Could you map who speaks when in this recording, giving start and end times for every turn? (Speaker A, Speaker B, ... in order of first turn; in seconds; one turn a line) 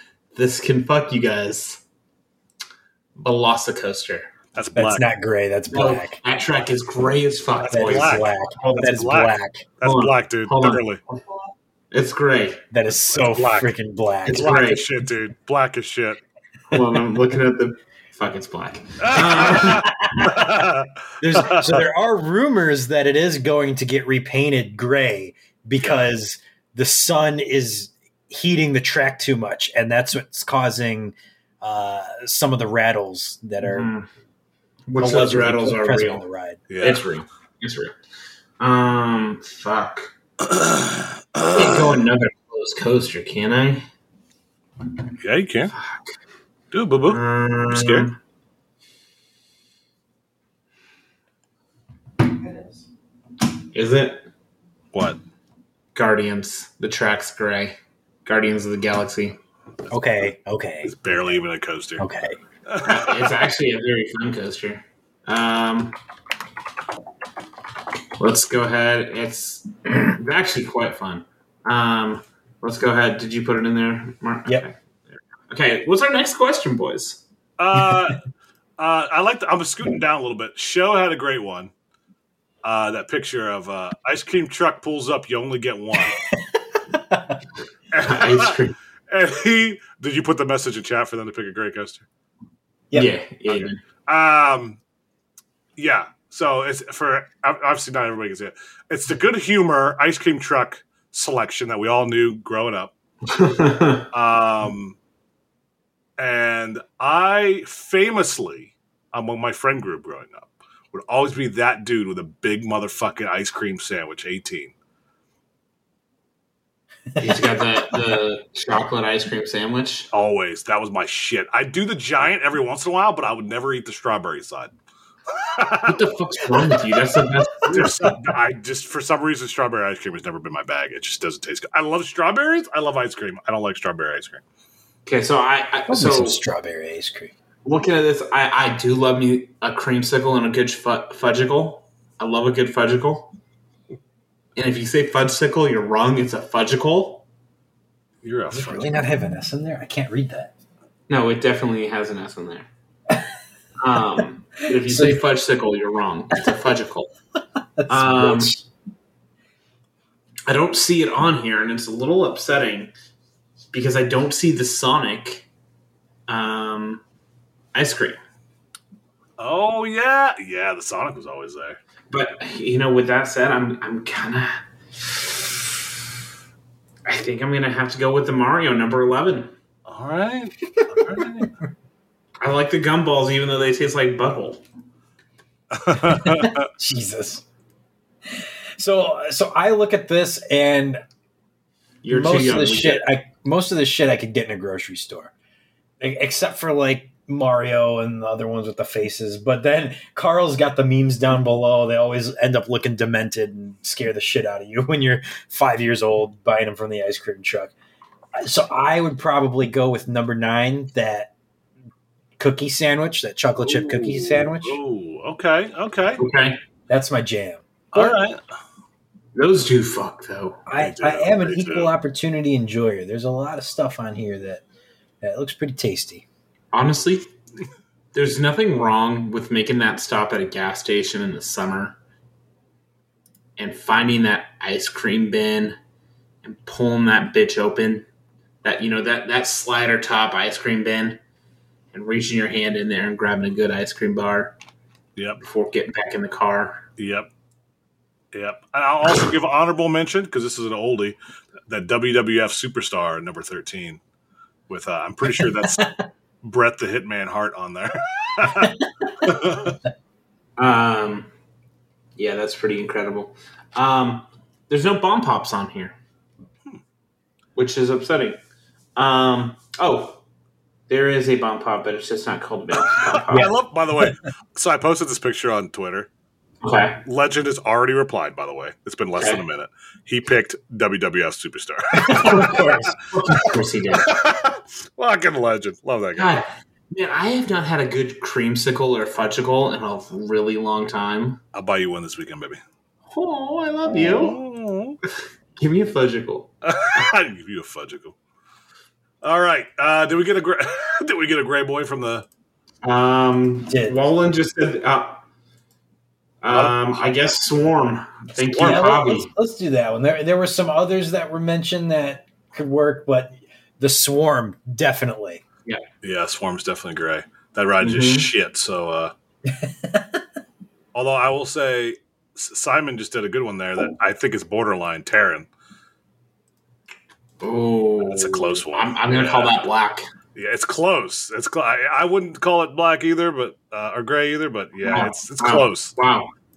Speaker A: 0.3-1.8
Speaker A: 3.2-4.3
Speaker B: 4.5-5.1
Speaker C: 4.8-6.2
Speaker A: 5.7-8.3
Speaker B: 7.6-11.0
Speaker C: 7.7-9.6
Speaker A: 9.8-10.9
Speaker A: 11.9-12.6
Speaker C: 12.7-14.5
Speaker B: 13.1-13.7
Speaker A: 14.3-14.8
Speaker B: 14.3-16.2
Speaker A: 16.7-19.9
Speaker B: 19.0-21.9
Speaker C: 19.8-20.5
Speaker C: 21.2-33.9
Speaker A: 33.6-34.1
Speaker A: 34.9-36.2
Speaker C: 35.0-36.6
Speaker B: 36.7-37.0
Speaker A: 36.8-37.9
Speaker A: 38.6-40.1
Speaker B: 40.4-42.0
Speaker A: 41.5-43.8
Speaker B: 45.2-45.7
Speaker A: 45.7-46.0
Speaker B: 46.7-48.1
Speaker A: 47.1-48.2
Speaker A: 53.7-54.2
Speaker B: 54.9-55.2
Speaker A: 56.0-59.4
Speaker C: 59.9-61.0
Speaker B: 60.8-62.0
Speaker C: 62.0-62.4
Speaker B: 62.7-63.4
Speaker A: 62.9-66.0
Speaker A: 68.2-74.8
Speaker A: 75.5-77.2
Speaker B: 77.6-78.2
Speaker B: 78.8-81.7
Speaker B: 82.6-86.2
Speaker C: 86.9-87.4
Speaker B: 87.9-88.6
Speaker A: 88.0-88.8
Speaker B: 89.1-92.1
Speaker C: 92.9-93.7
Speaker A: 92.9-93.8
Speaker B: 94.1-94.8
Speaker B: 95.8-102.9
Speaker A: 103.3-104.1
Speaker B: 104.1-105.0
Speaker B: 106.2-114.7
Speaker C: 117.1-117.5
Speaker A: 117.2-120.1
Speaker B: 120.1-124.7
Speaker B: 125.3-126.0
Speaker A: 125.9-128.0
Speaker B: 127.7-134.4
Speaker A: 135.1-136.4
Speaker C: 135.9-137.3
Speaker A: 137.7-143.3
Speaker A: 144.6-147.2
Speaker B: 148.2-149.0
Speaker C: 148.5-150.5
Speaker A: 151.1-152.7
Speaker A: 153.8-157.1
Speaker C: 154.9-155.2
Speaker C: 157.8-158.6
Speaker A: 157.9-158.5
Speaker A: 160.5-162.9
Speaker A: 163.7-165.5
Speaker A: 166.3-167.0
Speaker A: 167.7-168.2
Speaker B: 169.4-171.8
Speaker A: 172.1-174.6
Speaker A: 177.1-179.5
Speaker B: 179.9-181.5
Speaker A: 182.4-184.6
Speaker B: 185.7-186.7
Speaker C: 186.0-187.4
Speaker C: 188.3-191.0
Speaker A: 192.0-193.0
Speaker C: 192.1-195.3
Speaker C: 196.0-207.7
Speaker C: 208.4-211.3
Speaker C: 212.4-214.8
Speaker B: 213.6-216.2
Speaker A: 216.2-216.6
Speaker C: 216.9-218.2
Speaker B: 217.9-218.4
Speaker A: 219.3-220.6
Speaker C: 220.7-224.6
Speaker B: 220.8-221.9
Speaker C: 225.2-226.3
Speaker A: 226.7-227.3
Speaker A: 228.1-232.0
Speaker A: 233.6-235.8
Speaker A: 236.4-238.1
Speaker A: 238.6-241.2
Speaker A: 241.9-244.5
Speaker A: 245.4-246.9
Speaker B: 247.0-247.3
Speaker B: 248.3-254.0
Speaker B: 254.7-255.9
Speaker C: 255.4-256.0
Speaker B: 256.4-259.8
Speaker C: 258.6-259.1
Speaker A: 260.6-261.3
Speaker A: 262.2-265.9
Speaker A: 267.6-268.4
Speaker A: 269.0-270.2
Speaker A: 270.9-273.5
Speaker B: 272.8-276.1
Speaker A: 276.6-277.0
Speaker B: 277.0-282.7
Speaker A: 279.2-279.4
Speaker C: 281.9-283.0
Speaker A: 282.2-284.1
Speaker B: 283.9-286.4
Speaker A: 286.2-291.4
Speaker B: 291.5-292.6
Speaker A: 293.1-294.4
Speaker B: 293.9-295.0
Speaker A: 295.6-296.5
Speaker B: 296.6-298.1
Speaker B: 299.2-302.3
Speaker A: 302.8-305.2
Speaker C: 303.7-304.0
Speaker A: 306.4-309.3
Speaker B: 306.5-307.0
Speaker B: 308.4-308.9
Speaker C: 308.6-315.4
Speaker B: 316.0-319.1
Speaker A: 317.8-318.3
Speaker C: 319.6-320.2
Speaker B: 320.9-325.5
Speaker A: 327.4-330.1
Speaker B: 328.0-329.5
Speaker B: 330.4-335.9
Speaker A: 334.8-336.3